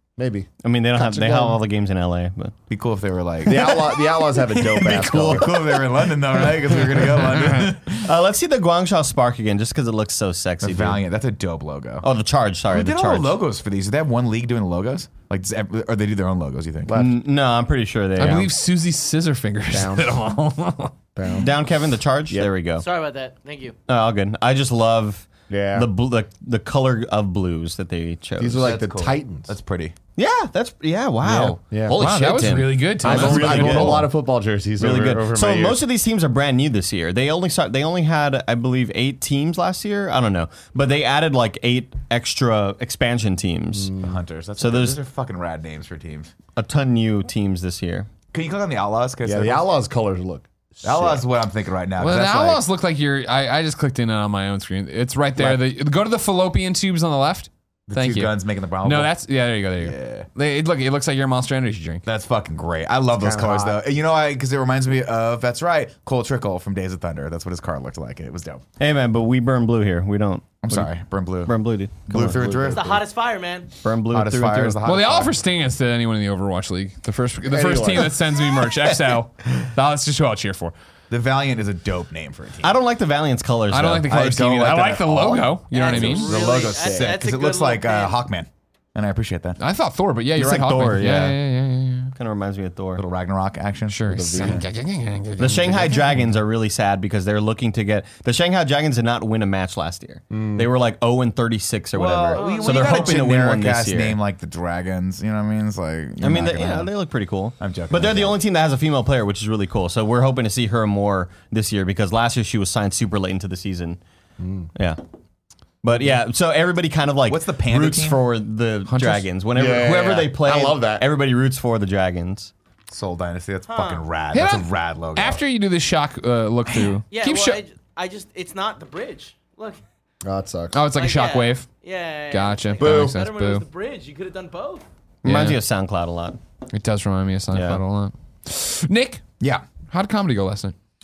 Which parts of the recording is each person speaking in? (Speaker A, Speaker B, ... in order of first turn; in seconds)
Speaker A: 0.2-1.6, 3.5-5.8, 16.9-17.1, 19.7-20.2, 21.2-21.5, 25.5-25.9, 28.4-29.6, 31.2-35.8, 43.7-44.1, 49.2-51.2, 63.1-63.8, 72.1-73.1, 77.4-78.3, 86.6-87.1, 94.1-94.7, 100.3-100.7, 114.4-114.7, 119.5-121.0, 130.2-130.8, 132.8-133.2
Speaker B: 0.6-2.5, 8.0-11.0, 12.0-13.4, 16.9-18.5, 21.4-22.9, 23.9-28.8, 30.2-34.0, 34.8-43.9, 44.6-45.0, 46.6-48.1, 68.8-70.9, 71.5-72.4, 73.8-74.8, 82.6-84.2, 90.4-91.4, 92.2-93.0, 95.4-104.2, 106.2-114.0, 115.8-122.5, 135.2-136.4, 137.5-137.8
Speaker C: 2.7-8.1, 10.6-12.1, 12.7-17.1, 28.6-29.9, 33.2-34.0, 44.0-46.3, 48.3-49.7, 50.8-52.6, 57.9-59.1, 59.8-60.3, 62.0-68.6, 70.6-71.5, 72.1-73.0, 74.1-75.4, 81.1-82.7, 84.0-89.6, 93.0-94.7, 101.9-106.9, 107.6-108.4, 117.3-118.2, 122.9-125.4, 139.4-139.7
Speaker D: 18.2-20.9, 31.9-34.1, 52.0-62.0, 74.8-80.7, 83.7-86.4, 89.6-92.1, 93.9-96.3, 118.9-119.3, 124.3-127.6, 130.7-131.7, 132.3-133.7, 135.2-135.6, 136.7-139.2, 139.9-140.8
Speaker E: 22.8-23.8, 72.7-73.7, 85.7-88.2, 102.3-103.2, 123.7-124.0, 127.1-129.8, 130.9-134.9